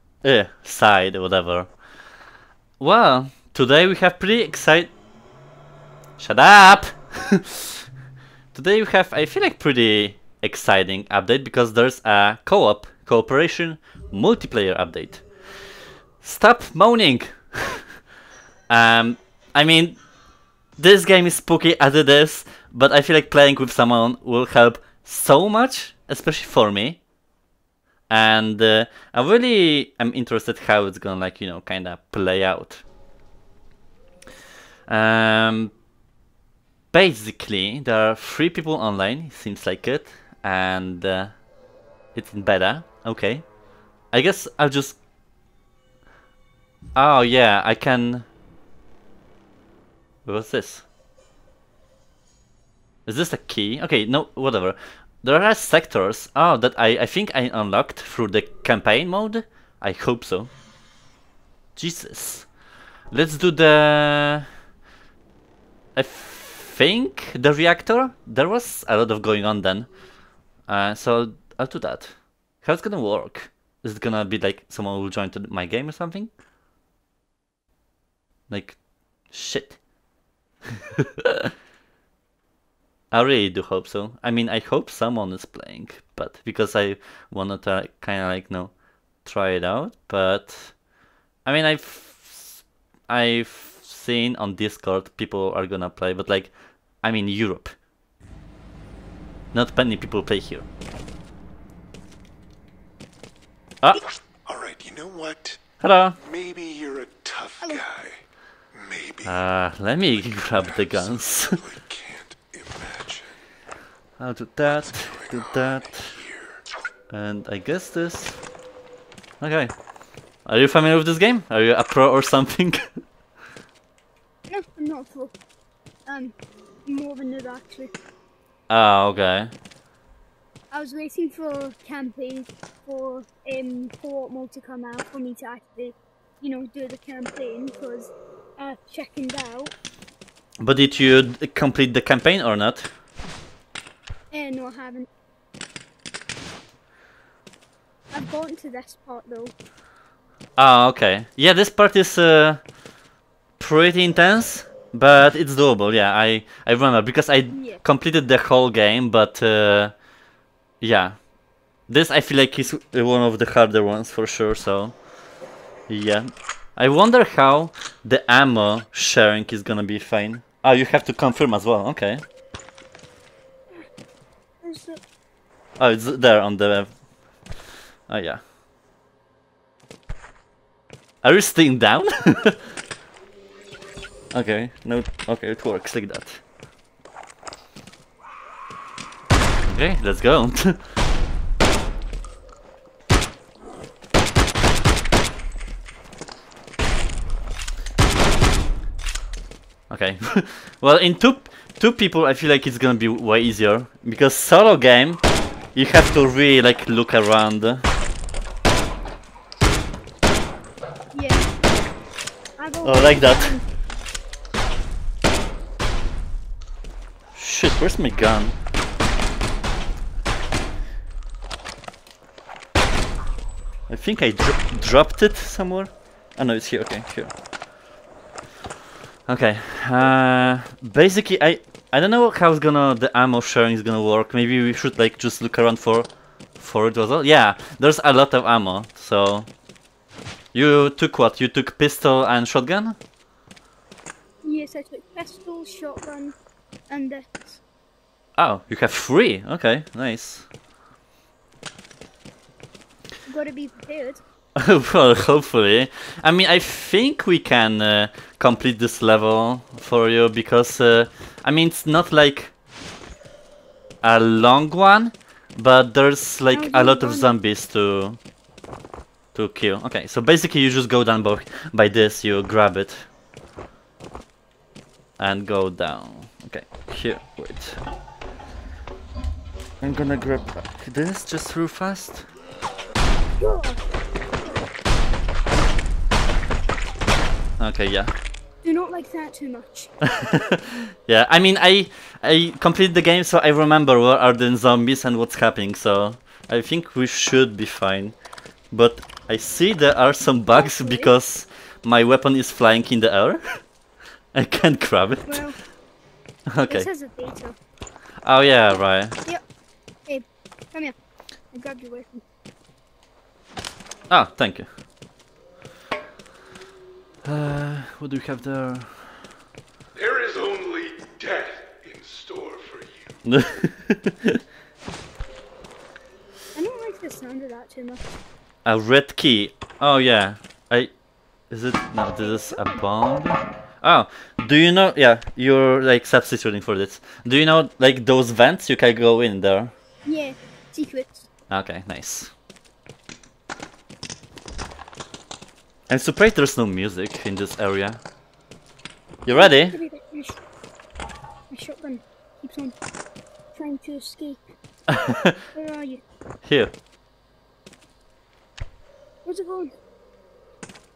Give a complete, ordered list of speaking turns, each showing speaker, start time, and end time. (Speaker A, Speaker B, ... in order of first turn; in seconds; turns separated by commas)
Speaker A: 0.2-1.7, Speaker A: 2.8-4.9, Speaker A: 6.2-7.8, Speaker A: 8.5-15.2, Speaker A: 16.2-17.9, Speaker A: 18.7-20.0, Speaker A: 20.8-27.0, Speaker A: 28.1-32.8, Speaker A: 34.9-35.8, Speaker A: 36.9-41.4, Speaker A: 42.1-43.5, Speaker A: 44.1-45.0, Speaker A: 47.0-48.3, Speaker A: 50.3-50.9, Speaker A: 53.1-60.5, Speaker A: 61.8-62.5, Speaker A: 63.1-64.5, Speaker A: 66.0-69.9, Speaker A: 70.7-76.3, Speaker A: 78.5-78.8, Speaker A: 79.3-79.8, Speaker A: 83.1-90.8, Speaker A: 91.5-97.8, Speaker A: 99.5-100.7, Speaker B: 104.5-105.6, Speaker A: 105.8-106.2, Speaker B: 106.2-108.2, Speaker B: 108.7-109.3, Speaker A: 109.2-111.7, Speaker B: 110.5-113.4, Speaker A: 114.2-116.2, Speaker B: 114.9-116.6, Speaker A: 117.1-118.4, Speaker A: 119.4-119.7, Speaker A: 120.5-122.9, Speaker C: 124.5-125.3, Speaker C: 126.1-126.3, Speaker C: 126.9-127.9, Speaker A: 128.7-129.5, Speaker C: 130.7-139.7, Speaker A: 140.6-142.9, Speaker C: 144.3-145.1, Speaker C: 148.1-149.5, Speaker A: 150.6-152.6, Speaker A: 153.6-159.9, Speaker C: 157.5-157.8, Speaker A: 160.8-161.2, Speaker A: 161.9-164.9, Speaker A: 165.9-172.2, Speaker C: 174.6-175.0, Speaker A: 175.8-176.9, Speaker A: 178.1-178.4, Speaker A: 181.2-182.7, Speaker A: 184.3-186.4, Speaker A: 189.7-190.8, Speaker A: 199.9-205.2, Speaker A: 205.8-207.8, Speaker C: 211.1-211.5, Speaker C: 212.6-213.7, Speaker A: 212.8-213.6, Speaker A: 217.3-218.6, Speaker A: 223.9-227.3, Speaker A: 229.3-239.5, Speaker A: 240.5-243.0, Speaker C: 244.4-246.3, Speaker C: 246.9-247.6, Speaker A: 248.4-250.5, Speaker C: 253.3-254.2, Speaker A: 254.6-262.5, Speaker A: 264.0-268.2, Speaker C: 266.5-267.3, Speaker A: 269.4-273.1, Speaker A: 275.2-277.8, Speaker A: 279.8-282.2, Speaker C: 283.4-283.8, Speaker A: 287.6-288.1, Speaker C: 288.6-289.9, Speaker A: 290.2-298.2, Speaker A: 298.7-303.4, Speaker C: 300.5-301.1, Speaker A: 304.3-305.4, Speaker C: 305.2-305.6, Speaker A: 306.5-306.9, Speaker C: 306.7-307.6, Speaker A: 308.2-309.2, Speaker C: 310.1-310.9, Speaker C: 311.5-312.2, Speaker A: 314.1-314.7, Speaker A: 317.2-319.0, Speaker B: 320.0-323.1, Speaker A: 323.2-324.4, Speaker C: 326.5-328.1, Speaker A: 328.6-330.9, Speaker A: 331.5-339.7, Speaker C: 332.2-332.8, Speaker C: 340.1-341.3, Speaker A: 341.5-342.3, Speaker A: 345.9-348.0, Speaker A: 349.3-349.8, Speaker C: 349.4-350.4, Speaker C: 351.5-352.8, Speaker C: 353.6-354.4, Speaker A: 354.9-355.4, Speaker C: 355.5-356.0, Speaker A: 356.4-356.7, Speaker C: 359.2-359.7